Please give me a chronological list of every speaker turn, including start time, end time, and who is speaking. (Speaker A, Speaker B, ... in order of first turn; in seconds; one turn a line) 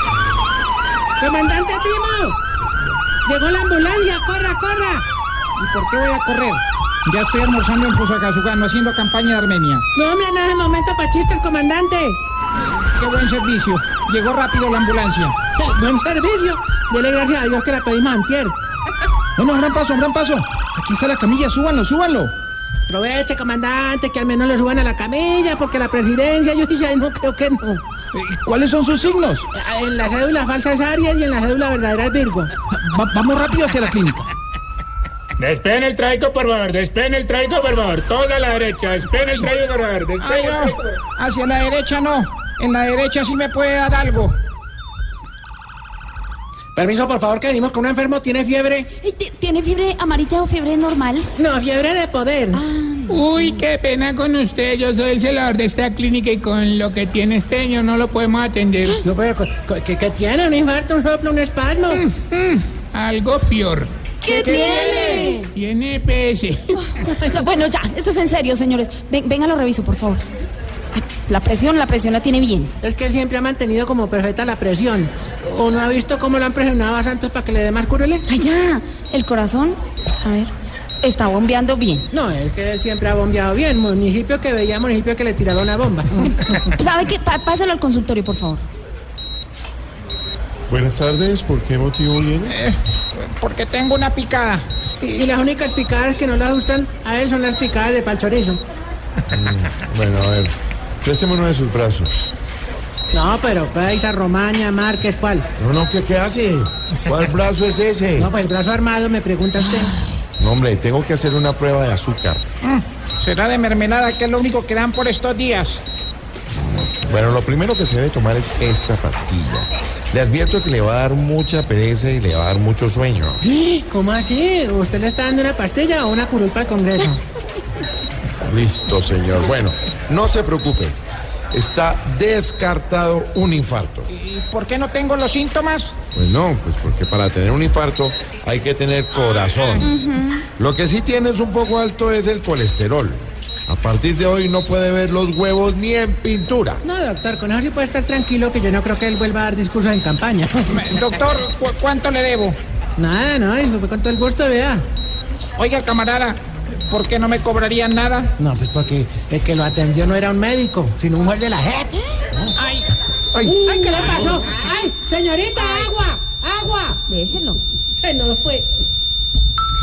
Speaker A: 1.2-2.4
Speaker A: 3.2-5.0
Speaker B: 5.6-9.9
Speaker A: 9.9-12.2
Speaker B: 12.9-15.3
Speaker A: 15.6-18.5
Speaker B: 19.4-22.3
Speaker A: 22.9-27.8
Speaker B: 28.1-29.4
Speaker A: 29.5-32.5
Speaker B: 32.8-34.3
Speaker C: 35.4-41.0
Speaker B: 40.2-44.3
Speaker A: 46.7-48.9
Speaker D: 49.0-51.3
Speaker A: 51.4-52.6
Speaker D: 52.5-53.6
Speaker E: 53.1-58.9
Speaker A: 59.0-62.1
Speaker E: 62.4-63.9
Speaker D: 64.2-65.5
Speaker A: 64.3-65.5
Speaker B: 64.5-65.0
Speaker E: 65.5-66.6
Speaker D: 66.7-70.2
Speaker A: 67.0-67.6
Speaker D: 70.9-72.7
Speaker A: 72.8-78.2
Speaker D: 78.3-80.5
Speaker D: 81.0-82.1
Speaker A: 82.1-86.7
Speaker D: 86.4-88.6
Speaker F: 90.7-92.5
Speaker B: 92.5-94.6
Speaker A: 95.0-98.6
Speaker F: 99.3-102.3
Speaker A: 103.1-105.5
Speaker F: 105.6-108.3
Speaker A: 108.2-110.0
Speaker D: 109.8-110.2
Speaker F: 110.4-112.4
Speaker B: 112.6-115.8
Speaker F: 117.0-123.4
Speaker A: 123.4-127.2
Speaker F: 128.4-131.0
Speaker F: 131.5-134.1
Speaker B: 134.1-135.9
Speaker F: 136.1-139.9
Speaker D: 139.8-140.4
Speaker F: 140.6-146.8
Speaker A: 146.8-150.7
Speaker B: 150.7-152.6
Speaker A: 153.0-154.8
Speaker B: 155.6-158.3
Speaker A: 158.4-162.1
Speaker B: 162.6-162.9
Speaker F: 163.3-164.2
Speaker A: 163.4-167.0
Speaker D: 167.1-167.6
Speaker A: 168.0-168.7